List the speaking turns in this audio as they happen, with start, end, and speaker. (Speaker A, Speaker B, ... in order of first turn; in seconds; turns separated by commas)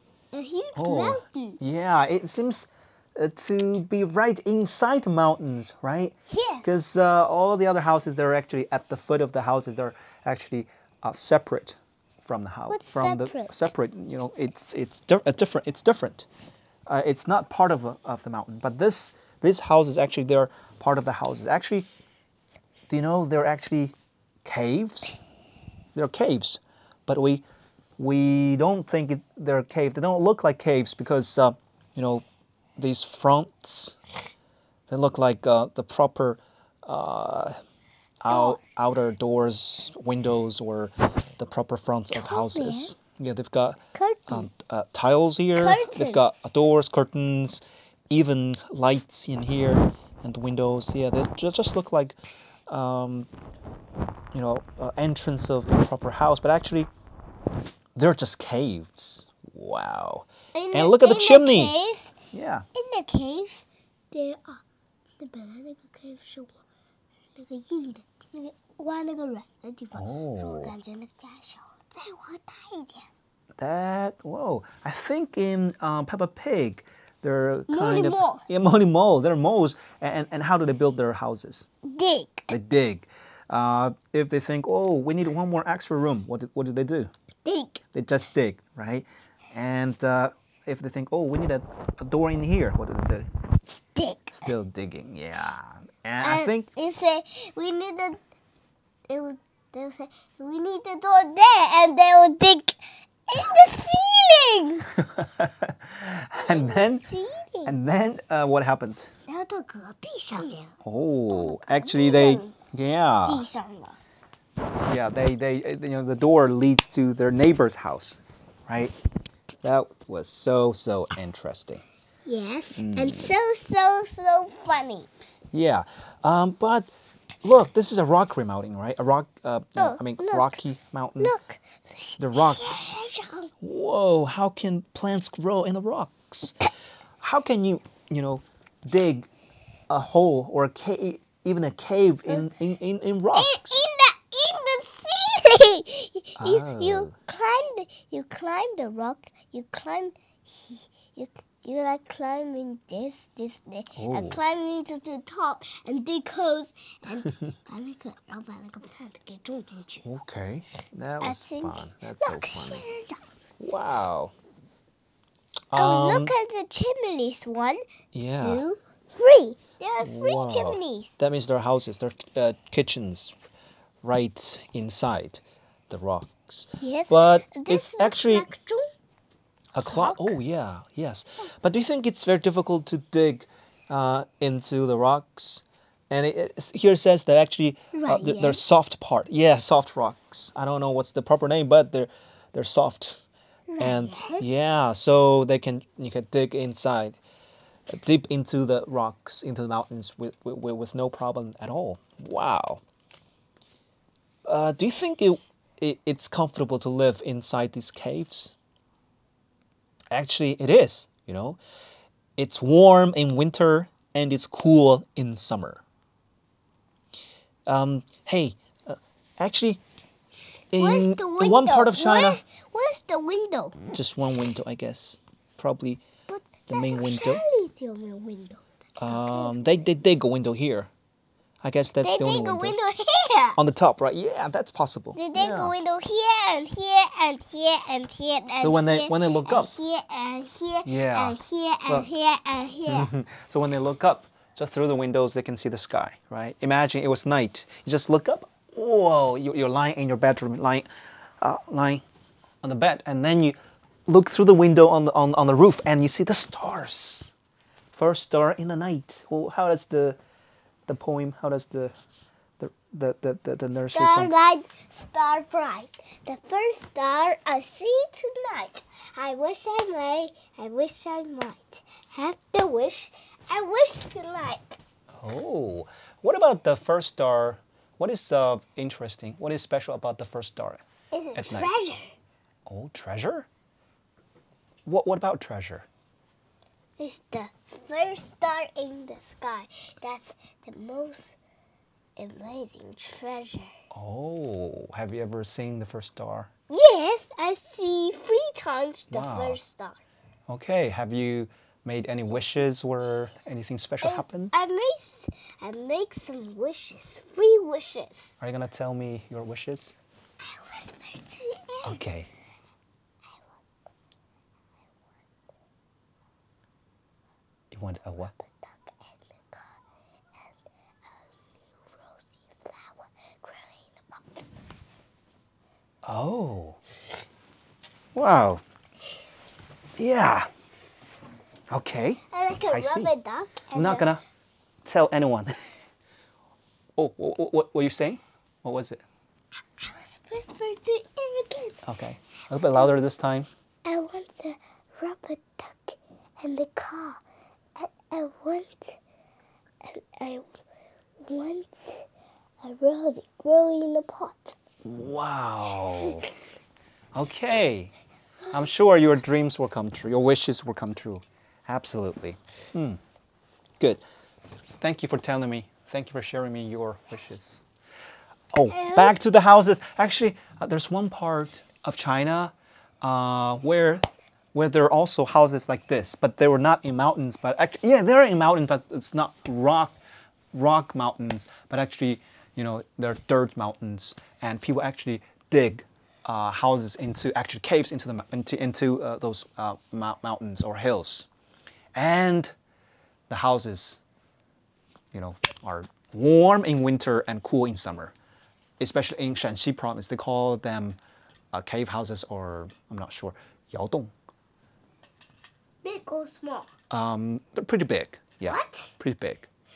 Speaker A: 0.3-1.6, Speaker B: 0.8-16.3, Speaker A: 6.3-6.8, Speaker A: 12.7-13.7, Speaker B: 16.9-21.9, Speaker B: 22.9-25.2, Speaker B: 25.9-27.4, Speaker B: 28.0-32.2, Speaker B: 32.8-34.0, Speaker B: 34.9-37.6, Speaker B: 38.2-52.1, Speaker A: 38.3-38.6, Speaker A: 42.1-42.9, Speaker A: 43.9-44.5, Speaker A: 45.5-46.5, Speaker B: 52.7-53.3, Speaker B: 54.3-56.9, Speaker B: 57.9-61.7, Speaker A: 60.5-62.1, Speaker B: 62.3-62.6, Speaker A: 62.7-64.6, Speaker A: 65.2-66.6, Speaker A: 67.3-73.1, Speaker B: 69.9-70.7, Speaker B: 73.6-81.7, Speaker A: 77.7-78.4, Speaker A: 81.8-82.5, Speaker B: 82.5-87.1, Speaker A: 87.4-87.8, Speaker B: 87.9-93.3, Speaker A: 94.0-94.5, Speaker B: 94.3-96.7, Speaker A: 96.2-98.2, Speaker A: 99.1-105.0, Speaker B: 105.0-107.0, Speaker A: 106.4-107.7, Speaker B: 107.6-109.1, Speaker A: 109.3-110.7, Speaker B: 110.8-113.5, Speaker A: 111.3-112.5, Speaker A: 113.2-114.0, Speaker B: 114.8-118.9, Speaker B: 119.6-121.8, Speaker A: 122.2-125.1, Speaker B: 122.8-123.3, Speaker B: 125.5-126.9, Speaker B: 127.4-131.3, Speaker A: 129.8-130.6, Speaker A: 131.2-133.5, Speaker B: 132.2-133.0, Speaker B: 133.6-136.6, Speaker B: 137.2-139.3, Speaker B: 139.9-143.8, Speaker A: 143.3-160.1, Speaker B: 146.4-147.1, Speaker B: 154.0-154.4, Speaker B: 160.0-162.8, Speaker A: 161.2-163.2, Speaker B: 163.6-164.3, Speaker B: 165.7-166.3, Speaker A: 165.7-171.2, Speaker B: 168.1-168.6, Speaker B: 170.0-173.3, Speaker B: 174.0-178.5, Speaker A: 176.8-178.9, Speaker B: 179.7-193.2, Speaker A: 179.8-180.4, Speaker A: 187.9-188.6, Speaker A: 193.7-194.5, Speaker B: 193.8-197.2, Speaker B: 197.9-202.8, Speaker B: 204.4-208.5, Speaker B: 210.1-211.6, Speaker B: 212.4-215.8, Speaker B: 217.7-219.8, Speaker B: 220.7-222.4, Speaker A: 220.8-223.8, Speaker B: 223.9-226.0, Speaker A: 226.3-229.8, Speaker B: 226.7-227.4, Speaker B: 229.0-230.9, Speaker B: 231.6-232.8, Speaker A: 232.0-233.6, Speaker B: 233.6-235.7, Speaker A: 235.1-243.1, Speaker B: 238.6-239.7, Speaker B: 240.8-242.1, Speaker B: 242.9-250.9, Speaker B: 251.4-252.0, Speaker B: 252.6-257.3, Speaker B: 257.9-260.2, Speaker B: 260.9-261.9, Speaker B: 262.6-264.3, Speaker A: 263.9-274.8, Speaker B: 275.1-280.8, Speaker A: 281.1-282.1, Speaker B: 281.4-281.7, Speaker B: 282.6-283.5, Speaker B: 284.9-285.9, Speaker A: 287.0-291.3, Speaker A: 292.2-293.7, Speaker B: 293.9-296.5, Speaker A: 296.7-300.0, Speaker B: 299.1-299.6, Speaker B: 300.5-304.5, Speaker A: 304.0-308.3, Speaker B: 308.4-309.9, Speaker A: 310.4-312.0, Speaker B: 311.8-312.3, Speaker B: 317.7-318.4, Speaker A: 318.4-319.7, Speaker A: 321.6-324.4, Speaker B: 326.0-326.8, Speaker B: 328.1-328.6, Speaker B: 330.0-330.5, Speaker B: 331.7-333.1, Speaker A: 332.3-334.1, Speaker B: 333.7-334.2, Speaker B: 334.8-335.5, Speaker B: 337.0-339.0, Speaker A: 339.8-341.8, Speaker B: 341.9-343.5, Speaker A: 343.8-347.2, Speaker A: 347.8-349.0, Speaker A: 349.8-350.6, Speaker A: 351.2-352.0, Speaker A: 352.6-354.6, Speaker B: 354.8-356.3, Speaker B: 357.1-357.9, Speaker B: 358.5-363.0, Speaker B: 364.8-367.6, Speaker B: 368.5-374.0, Speaker A: 368.7-369.2, Speaker B: 374.5-379.9, Speaker B: 380.5-391.3, Speaker B: 391.9-392.5, Speaker B: 393.3-394.0, Speaker B: 395.1-398.1, Speaker B: 398.8-401.0, Speaker B: 401.5-404.1, Speaker A: 405.8-406.7, Speaker B: 406.9-409.5, Speaker A: 408.5-408.9